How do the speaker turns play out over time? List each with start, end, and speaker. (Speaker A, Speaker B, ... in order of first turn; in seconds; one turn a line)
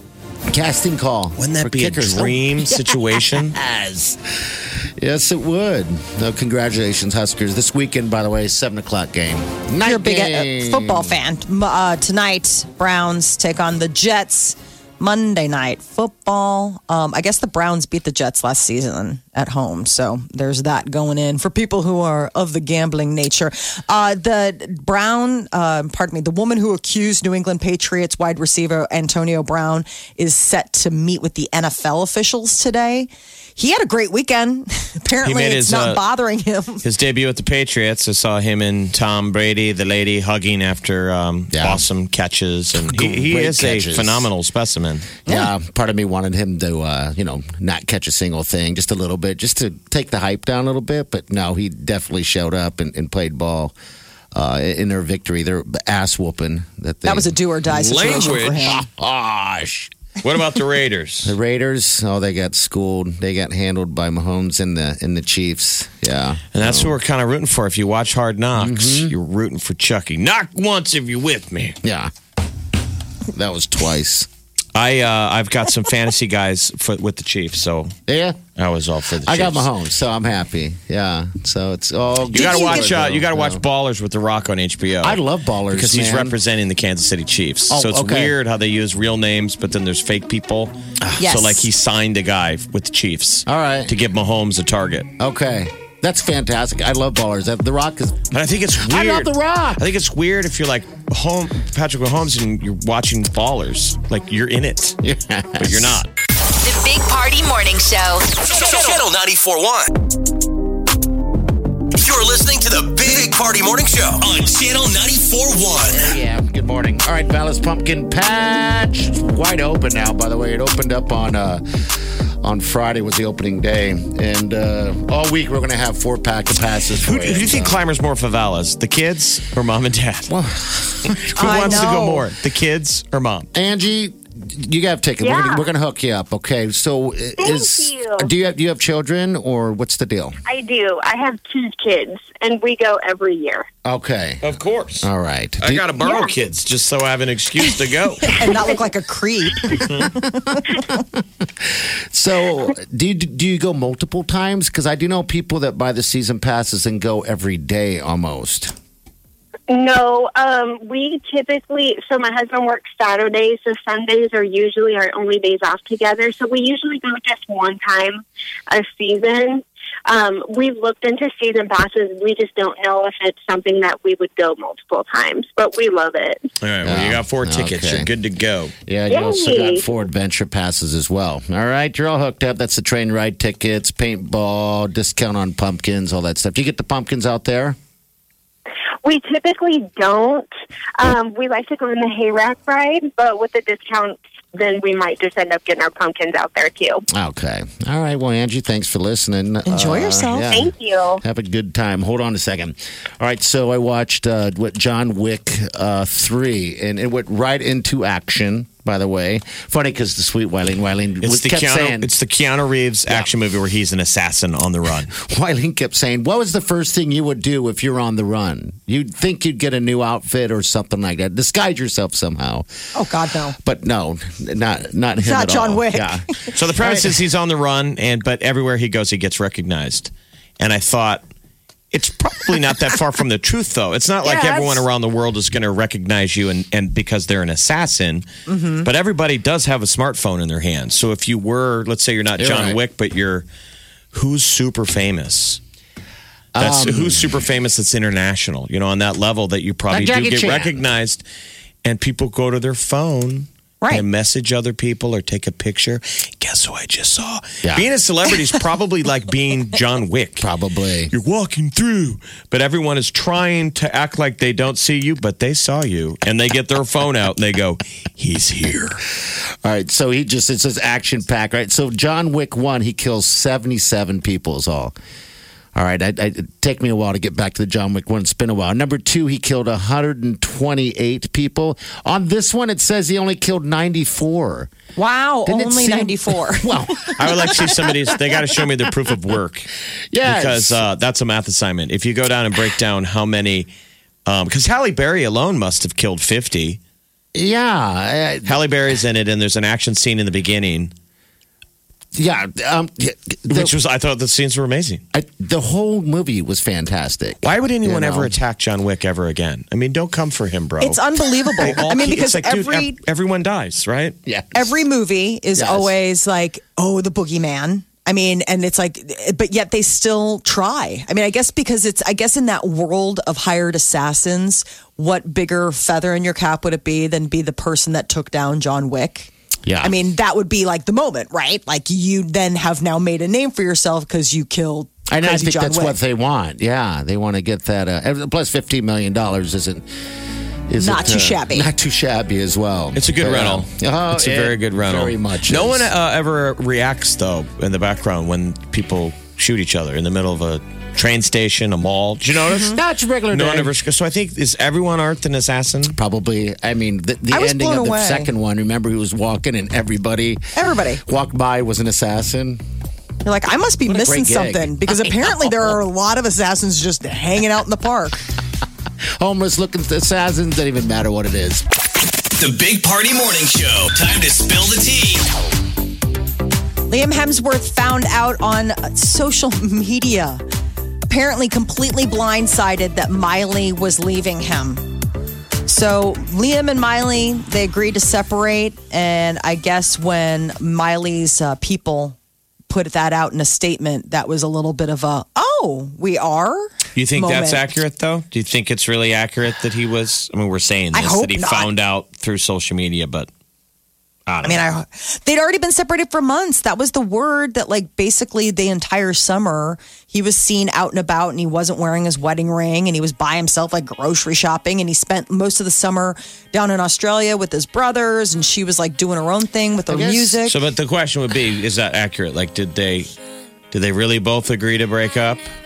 Speaker A: 0.5-2.8
Speaker B: 1.4-3.6
Speaker A: 3.4-11.2
Speaker C: 9.8-36.8
Speaker B: 35.2-36.0
Speaker B: 36.8-45.3
Speaker A: 41.5-41.9
Speaker A: 42.8-44.3
Speaker A: 45.3-53.8
Speaker A: 54.3-57.3
Speaker C: 57.0-58.8
Speaker B: 57.7-58.8
Speaker A: 58.1-59.9
Speaker B: 60.2-61.4
Speaker A: 61.2-67.0
Speaker B: 66.5-71.8
Speaker A: 68.6-69.2
Speaker A: 71.8-72.1
Speaker A: 73.3-74.3
Speaker B: 74.8-77.9
Speaker A: 78.1-78.4
Speaker B: 78.5-79.7
Speaker A: 79.2-83.6
Speaker B: 82.3-95.1
Speaker C: 82.3-82.9
Speaker A: 85.0-86.4
Speaker A: 87.7-88.3
Speaker C: 91.2-91.7
Speaker A: 93.5-93.9
Speaker A: 95.2-99.8
Speaker B: 98.3-105.0
Speaker A: 105.0-106.0
Speaker B: 105.6-106.1
Speaker D: 106.6-109.1
Speaker E: 108.5-109.9
Speaker E: 112.0-116.1
Speaker A: 115.9-121.6
Speaker A: 122.4-127.8
Speaker B: 127.0-130.3
Speaker A: 130.3-131.8
Speaker B: 131.1-133.5
Speaker C: 131.3-132.3
Speaker A: 133.5-140.4
Speaker F: 135.2-135.7
Speaker F: 137.4-138.3
Speaker F: 140.5-143.7
Speaker A: 143.8-144.4
Speaker B: 144.4-145.1
Speaker A: 145.0-145.9
Speaker B: 145.6-148.4
Speaker F: 146.0-146.3
Speaker C: 148.2-150.4
Speaker A: 151.2-158.7
Speaker F: 159.7-176.4
Speaker B: 176.6-178.7
Speaker A: 176.8-178.1
Speaker A: 178.9-187.8
Speaker F: 179.1-179.8
Speaker F: 189.0-197.0
Speaker A: 197.1-212.1
Speaker C: 199.7-200.5
Speaker F: 200.5-201.2
Speaker B: 211.2-215.1
Speaker A: 215.1-222.7
Speaker C: 222.9-223.6
Speaker A: 223.6-227.2
Speaker C: 225.2-226.7
Speaker B: 226.5-231.2
Speaker B: 231.9-238.3
Speaker C: 234.2-234.8
Speaker C: 238.5-238.9
Speaker B: 238.8-243.5
Speaker A: 242.4-242.8
Speaker B: 244.1-245.6
Speaker A: 246.5-247.4
Speaker B: 246.6-251.2
Speaker A: 249.9-250.8
Speaker B: 251.8-260.5
Speaker A: 260.4-261.1
Speaker B: 261.1-269.0
Speaker A: 269.6-274.9
Speaker A: 275.8-284.7
Speaker C: 285.0-287.6
Speaker A: 285.5-287.7
Speaker B: 287.2-289.7
Speaker A: 290.1-290.8
Speaker B: 290.2-293.7
Speaker B: 294.3-296.8
Speaker A: 297.4-298.6
Speaker B: 298.4-300.9
Speaker A: 302.1-303.8
Speaker B: 303.5-305.0
Speaker A: 305.1-308.3
Speaker B: 307.4-311.0
Speaker C: 310.8-313.0
Speaker B: 311.6-314.2
Speaker A: 314.3-314.8
Speaker C: 314.5-336.0
Speaker A: 315.6-315.9
Speaker A: 329.7-330.0
Speaker A: 335.1-339.9
Speaker A: 340.7-345.9
Speaker C: 340.8-341.7
Speaker B: 342.9-356.0
Speaker A: 352.6-353.7
Speaker A: 355.9-360.4
Speaker C: 357.3-358.3
Speaker C: 360.5-361.0
Speaker A: 361.0-362.6
Speaker C: 363.2-368.2
Speaker A: 363.9-365.8
Speaker A: 369.2-371.6
Speaker E: 372.4-375.3
Speaker C: 376.9-380.4
Speaker C: 381.1-384.9
Speaker C: 385.6-392.2
Speaker C: 392.7-397.7
Speaker B: 396.9-403.3
Speaker C: 400.9-401.7
Speaker B: 404.3-404.7
Speaker C: 404.4-420.6
Speaker A: 419.9-420.4
Speaker B: 420.4-423.1
Speaker B: 423.7-425.5